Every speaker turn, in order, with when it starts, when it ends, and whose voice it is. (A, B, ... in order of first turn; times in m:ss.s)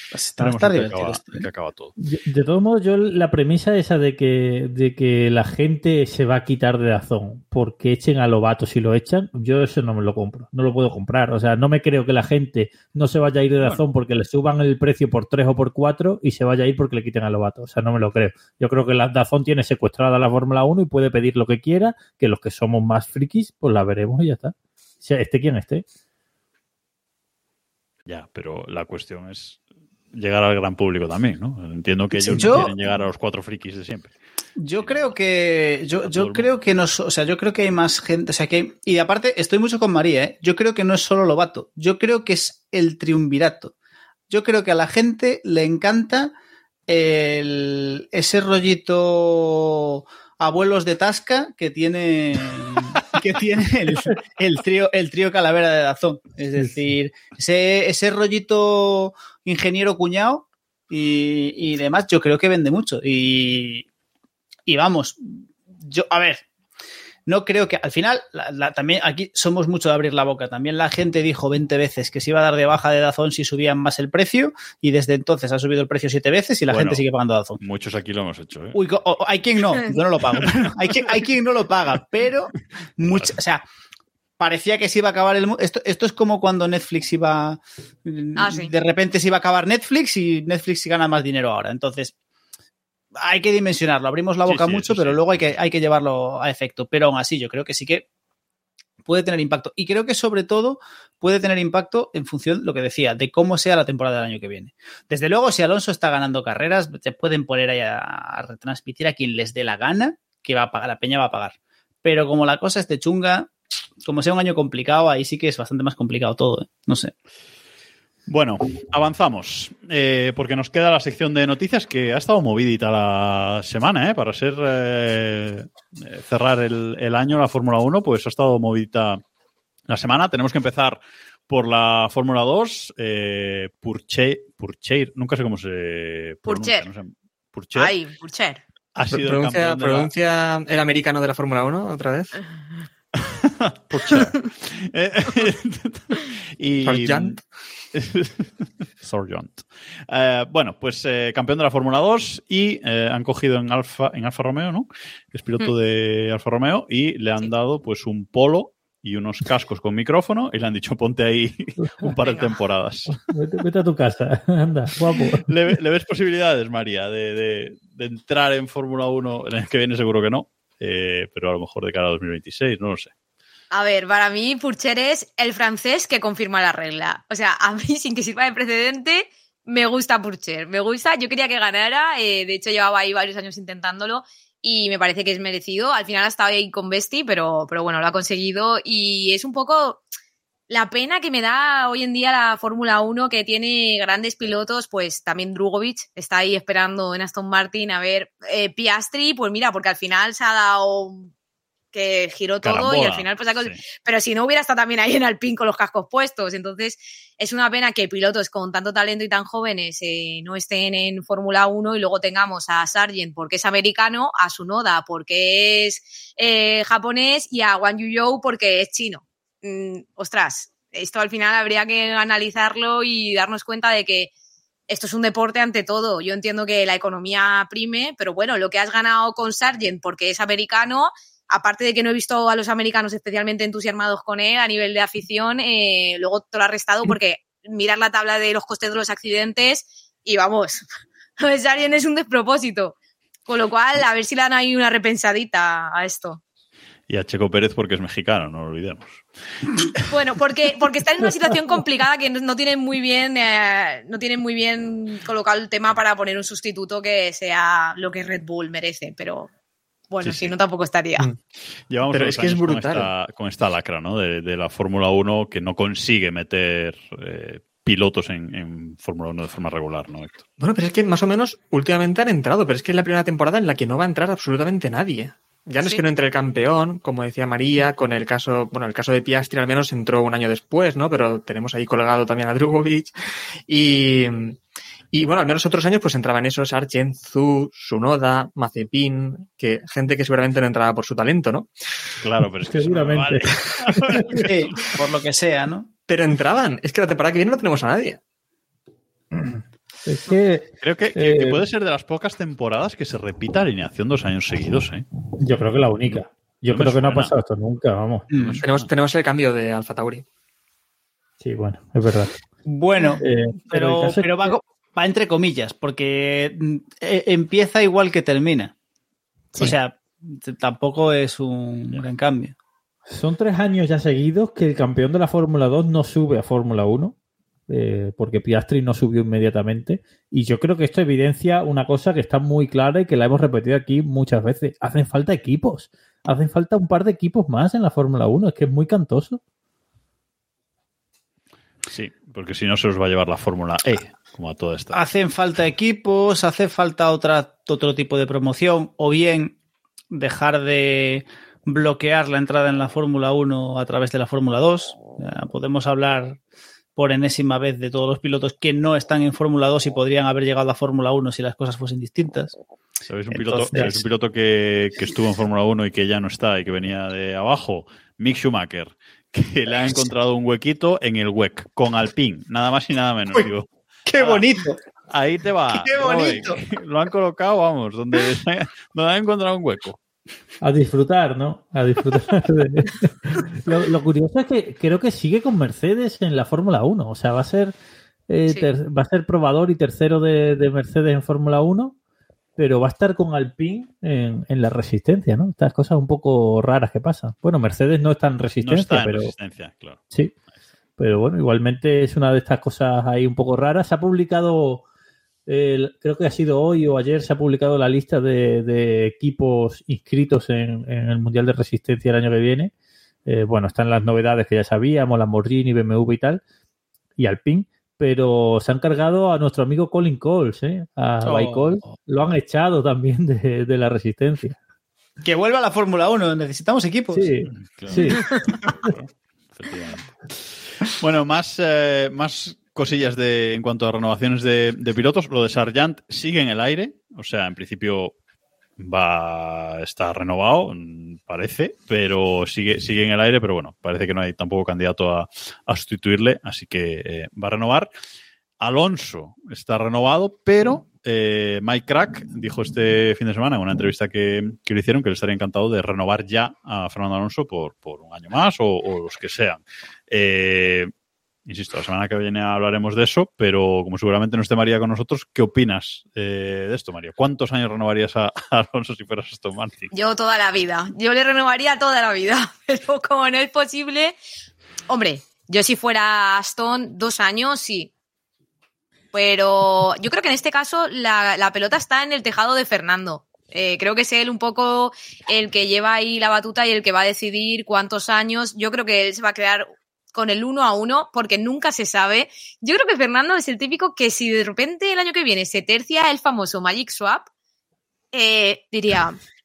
0:00.1-0:01.4 A
0:00.4-0:01.9 B
0:02.0-0:25.8 C
0:28.1-0:29.6 B
0:30.1-0:34.2 B
0:32.2-0:32.7 A
0:34.6-0:43.7 A
0:34.7-0:35.1 B
0:36.0-0:36.5 B
0:44.3-0:46.3 A
0:46.9-1:03.8 A
1:04.6-1:06.4 A
1:07.2-1:17.6 A
1:16.7-1:17.0 B
1:17.6-1:18.8 B
1:18.7-1:23.6 A
1:24.4-1:32.1 A
1:28.4-1:28.7 D
1:33.1-1:38.0 A
1:34.4-1:35.2 B
1:39.0-1:53.5 A
1:54.0-1:57.1 A
1:58.3-2:09.2 B
2:09.9-2:18.0 B
2:16.4-2:16.8 D
2:17.7-2:18.6 D
2:18.9-2:20.1 B
2:19.1-2:22.4 E
2:23.3-2:27.4 B
2:26.8-2:27.4 E
2:27.9-2:43.2 B
2:42.2-2:42.6 D
2:43.3-2:45.5 C
2:45.5-2:53.1 B
2:53.7-3:10.0 D
3:10.7-3:21.3 D
3:21.9-3:44.3 D
3:22.6-3:23.8 B
3:44.9-4:00.8 D
4:01.4-4:02.9 D
4:03.5-4:06.4 D
4:07.1-4:09.8 B
4:10.1-4:19.5 D
4:20.1-4:21.2 D
4:20.2-4:20.5 B
4:21.9-4:30.4 B
4:22.1-4:23.1 E
4:30.6-4:43.1 E
4:43.7-4:44.6 E
4:45.1-4:51.7 E
4:52.2-4:54.9 B
4:52.7-4:53.5 C
4:54.4-4:55.9 A
4:56.1-4:58.2 E
5:00.0-5:01.6 C
5:00.8-5:05.0 B
5:05.4-5:08.3 C
5:06.1-5:07.3 B
5:08.3-5:08.6 A
5:08.4-5:08.9 B
5:08.6-5:10.2 E
5:11.4-5:12.3 C
5:12.6-5:18.7 A
5:13.2-5:14.6 C
5:19.6-5:22.5 A
5:23.1-5:27.2 C
5:27.7-5:39.4 C
5:41.9-5:45.0 B
5:44.9-5:49.6 A
5:50.1-5:56.4 A
5:57.0-6:02.6 A
6:03.0-6:14.4 B
6:03.3-6:04.1 A
6:14.0-6:14.8 A
6:15.1-6:20.0 B
6:15.7-6:16.6 A
6:20.6-6:27.7 C
6:28.3-6:32.0 C
6:32.6-6:39.3 C
6:38.6-6:40.0 B
6:41.0-6:44.8 C
6:45.5-6:52.7 C
6:53.2-6:56.4 C
6:57.2-7:04.6 C
7:01.2-7:01.8 A
7:05.2-7:07.5 A
7:07.1-7:08.2 C
7:07.6-7:18.1 B
7:18.8-7:27.9 B
7:28.6-7:40.9 B
7:41.4-7:49.9 B
7:49.9-7:54.2 D
7:54.9-7:57.9 D
7:59.1-8:17.3 D
8:18.1-8:19.2 D